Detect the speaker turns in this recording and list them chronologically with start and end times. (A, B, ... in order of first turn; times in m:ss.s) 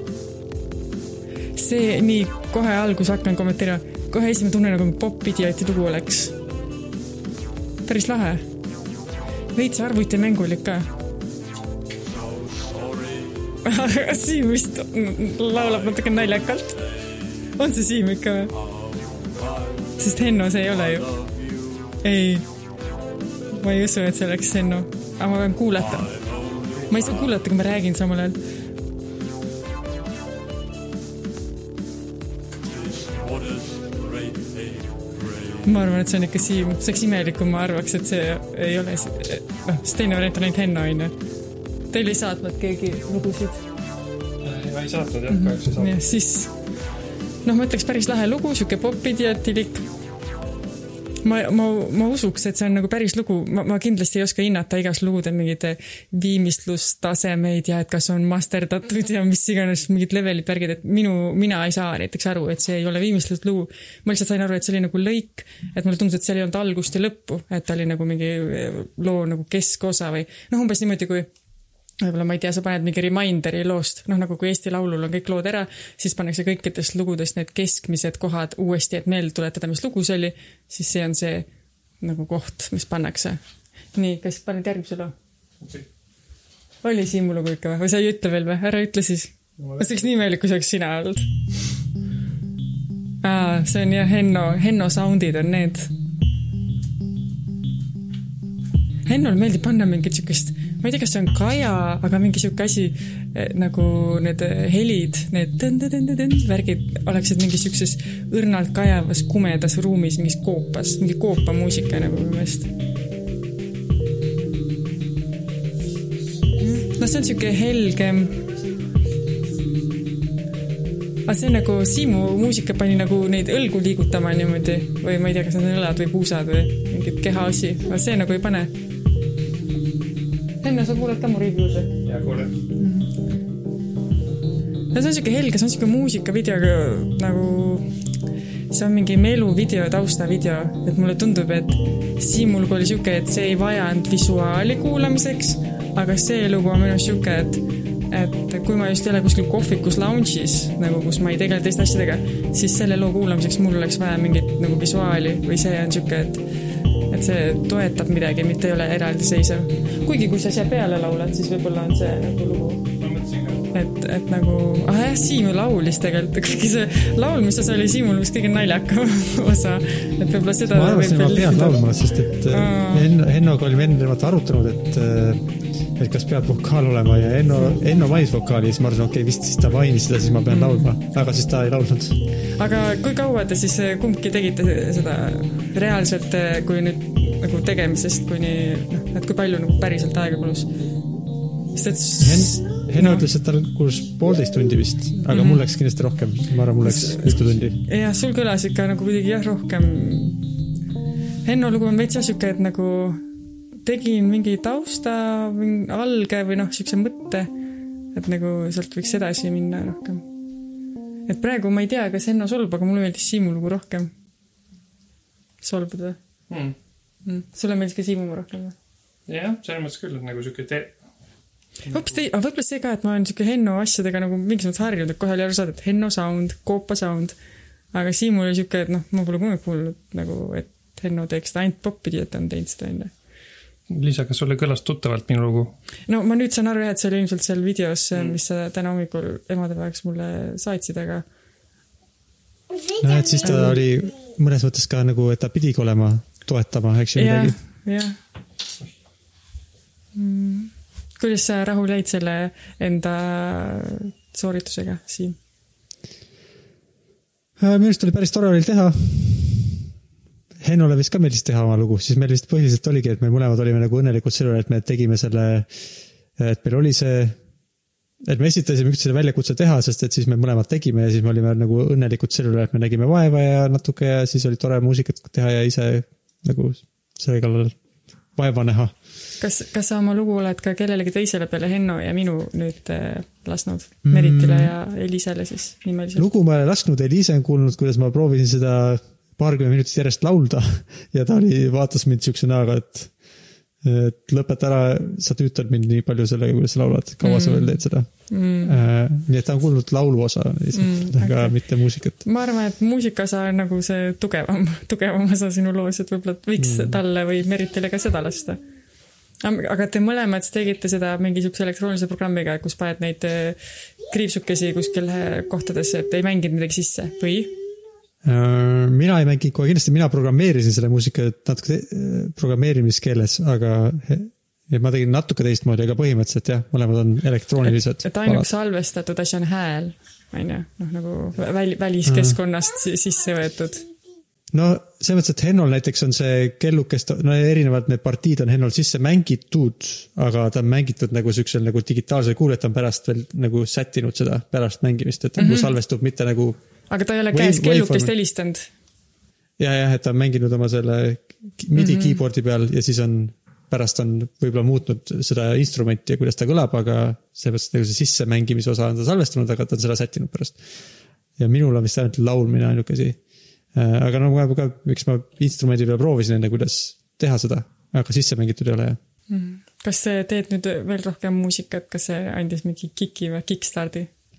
0:01.5-0:06.4 A
0:07.8-0:08.4 A
0:09.5-0:10.9 A
0:13.6-0:18.6 A
0:20.0-0:21.2 A
0:21.9-0:22.4 A
0:23.5-0:26.2 A
0:26.8-0:28.4 A
0:35.6-0:41.1 A
0:41.9-0:43.6 A
0:44.4-0:46.0 B
0:45.3-0:46.5 A
0:47.4-0:49.8 A
0:51.2-1:11.3 A
1:12.0-1:21.5 A
1:22.0-1:23.4 A
1:23.9-1:25.1 A
1:26.8-1:31.4 A
1:29.6-1:29.9 B
1:33.2-1:35.9 A
1:39.1-1:52.7 A
1:56.6-1:58.4 A
2:01.3-2:08.7 A
2:10.6-2:11.9 A
2:12.0-2:12.5 B
2:12.8-2:13.1 A
2:14.9-2:17.9 A
2:18.7-2:36.4 A
2:37.1-2:42.9 A
2:43.0-2:43.6 B
2:43.7-2:51.8 A
2:50.7-2:55.4 C
2:52.5-2:53.1 A
2:56.0-3:02.2 C
3:00.5-3:00.9 A
3:02.6-3:10.7 A
3:11.8-3:13.2 A
3:12.2-3:17.8 C
3:15.3-3:15.6 A
3:16.8-3:20.5 A
3:21.4-3:23.2 A
3:23.8-3:27.5 A
3:28.1-3:30.3 A
3:31.3-3:34.1 A
3:35.6-3:36.2 A
3:36.5-3:36.8 B
3:37.2-3:38.8 A
3:39.3-3:41.0 B
3:41.9-3:47.4 A
3:47.9-3:53.1 A
3:53.9-3:55.7 B
3:56.1-4:01.3 A
4:03.0-4:07.6 C
4:03.4-4:03.8 A
4:07.2-4:08.2 A
4:10.1-4:15.4 A
4:17.6-4:19.9 C
4:20.6-4:25.7 C
4:26.4-4:27.4 C
4:28.3-4:37.8 C
4:38.4-4:38.9 C
4:39.4-4:46.3 A
4:44.1-4:44.7 C
4:46.2-4:53.1 C
4:53.8-5:02.2 C
4:57.2-4:58.8 A
5:00.7-5:08.6 A
5:06.6-5:07.0 C
5:09.4-5:13.6 A
5:14.1-5:17.5 A
5:18.2-5:28.5 C
5:28.0-5:33.9 A
5:32.0-5:32.4 C
5:34.5-5:46.6 C
5:45.4-5:45.7 A
5:46.9-5:48.7 A
5:47.3-5:48.1 C
5:49.6-6:00.6 C
5:51.8-5:52.2 A
6:01.4-6:03.2 C
6:03.8-6:09.0 C
6:09.3-6:14.1 A